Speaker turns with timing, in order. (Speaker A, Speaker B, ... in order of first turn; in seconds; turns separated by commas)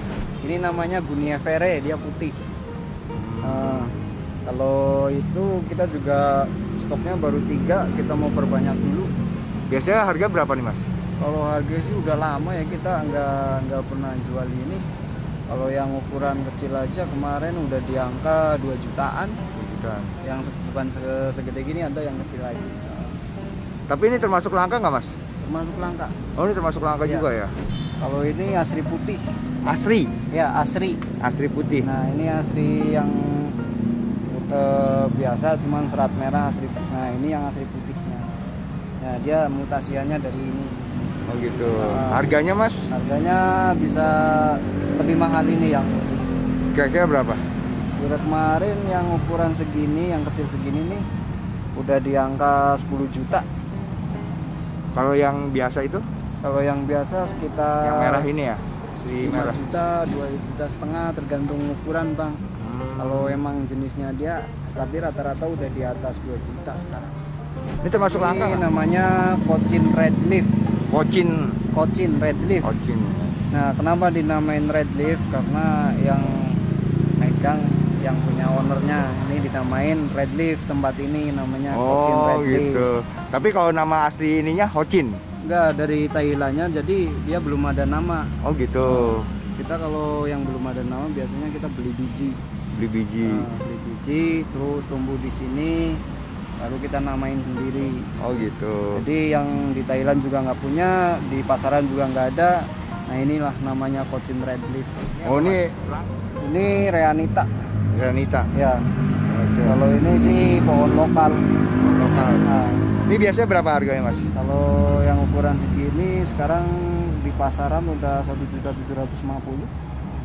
Speaker A: 0.4-2.4, Speaker B: 3.1-4.0, Speaker A: 3.4-3.9, Speaker A: 4.5-9.1, Speaker B: 9.7-10.8, Speaker A: 11.2-14.8, Speaker A: 15.5-19.4, Speaker B: 19.6-20.1, Speaker A: 20.2-23.2, Speaker B: 23.9-25.1, Speaker A: 25.4-26.2, Speaker B: 26.4-27.5, Speaker A: 28.0-29.2, Speaker B: 29.6-30.1, Speaker A: 30.3-31.0, Speaker B: 31.2-31.9, Speaker A: 31.8-33.5, Speaker A: 34.3-38.3, Speaker A: 39.0-40.8, Speaker B: 41.3-42.9, Speaker A: 41.8-42.3, Speaker A: 42.9-46.3, Speaker B: 46.7-47.4, Speaker A: 48.0-51.0, Speaker A: 51.8-53.5, Speaker B: 54.9-56.0, Speaker A: 56.4-58.3, Speaker B: 57.8-59.6, Speaker A: 59.2-62.4, Speaker B: 62.6-63.4, Speaker A: 63.0-67.2, Speaker B: 67.8-68.6, Speaker A: 68.1-70.5, Speaker B: 70.9-71.6, Speaker A: 71.7-72.7, Speaker B: 72.6-73.4, Speaker A: 73.5-76.6, Speaker A: 77.2-82.8, Speaker B: 81.7-85.2, Speaker A: 85.5-88.3, Speaker B: 88.4-89.3, Speaker A: 88.9-92.4, Speaker B: 92.7-93.5, Speaker A: 93.2-96.0, Speaker A: 96.6-98.0, Speaker B: 98.2-99.0, Speaker A: 98.9-105.6, Speaker B: 105.2-106.1, Speaker A: 106.4-107.5, Speaker B: 107.9-108.5, Speaker A: 108.5-108.9, Speaker B: 109.3-109.8, Speaker A: 109.7-111.5, Speaker B: 111.8-112.5, Speaker A: 112.4-112.9, Speaker B: 113.0-114.3, Speaker A: 114.3-119.7